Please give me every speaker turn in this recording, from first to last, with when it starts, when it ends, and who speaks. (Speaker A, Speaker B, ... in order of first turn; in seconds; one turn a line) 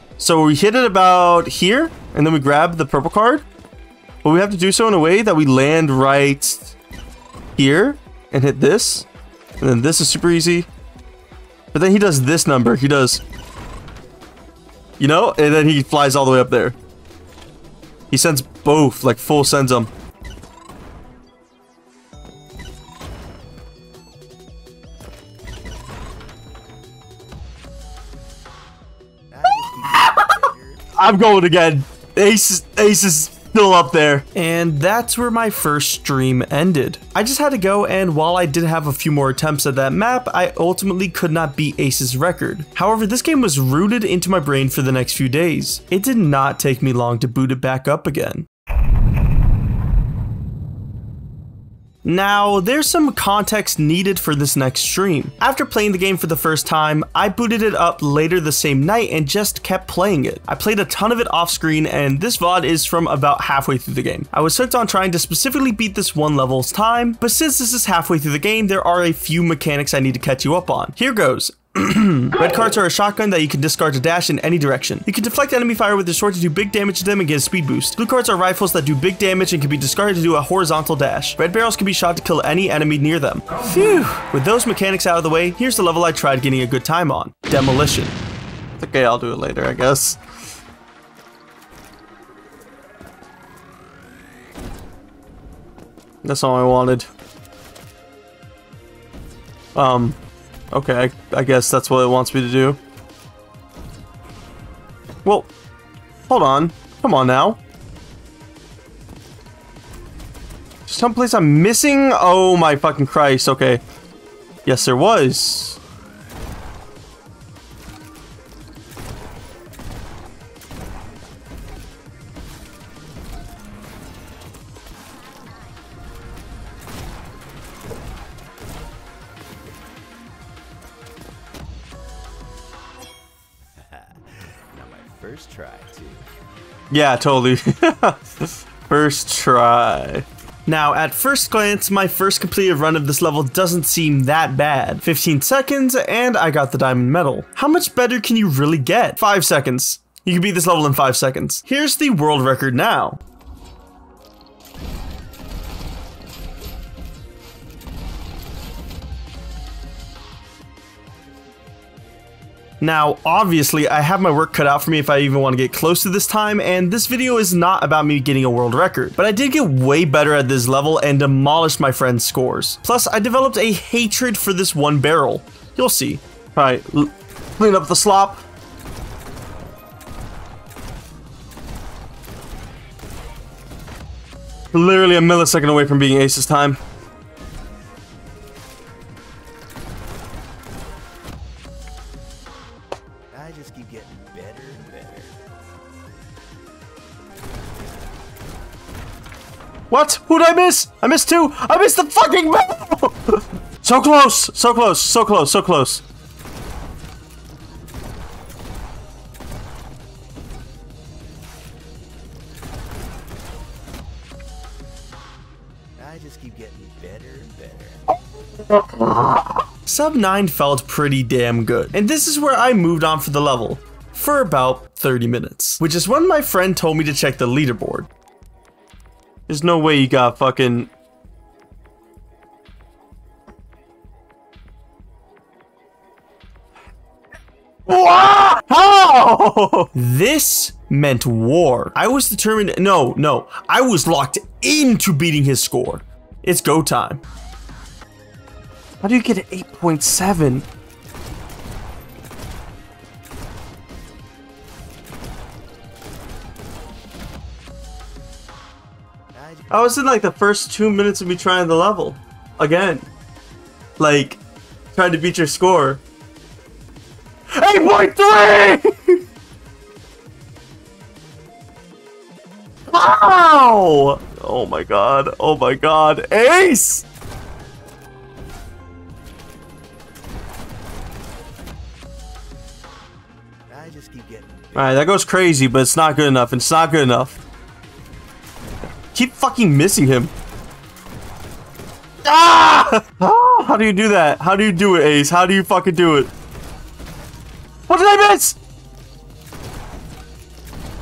Speaker A: 0.2-3.4
Speaker A: 4.2-6.7
Speaker A: 7.6-9.1
Speaker A: 9.6-10.7
Speaker A: 11.7-13.2
Speaker A: 15.0-16.8
Speaker A: 18.1-19.9
Speaker B: 29.3-30.9
Speaker A: 29.9-48.5
Speaker A: 52.0-88.2
Speaker A: 88.8-90.2
Speaker A: 96.2-97.1
Speaker A: 99.7-100.2
Speaker A: 100.7-102.8
Speaker A: 106.3-107.6
Speaker A: 110.9-113.8
Speaker A: 114.7-115.8
Speaker B: 133.8-136.3
Speaker A: 136.9-153.2
Speaker B: 161.1-162.2
Speaker A: 162.8-178.4
Speaker A: 184.7-186.8
Speaker B: 193.3-195.4
Speaker A: 199.9-206.0
Speaker B: 216.0-218.1
Speaker A: 218.6-228.1
Speaker A: 229.5-230.9
Speaker A: 237.9-247.2
Speaker A: 249.0-250.7
Speaker B: 259.3-259.9
Speaker A: 259.7-263.1
Speaker A: 264.0-264.4
Speaker A: 264.9-266.0
Speaker A: 267.5-269.2
Speaker A: 272.9-277.0
Speaker B: 283.7-285.1
Speaker A: 284.7-287.4
Speaker A: 289.1-290.3
Speaker A: 292.2-296.3
Speaker A: 297.9-298.6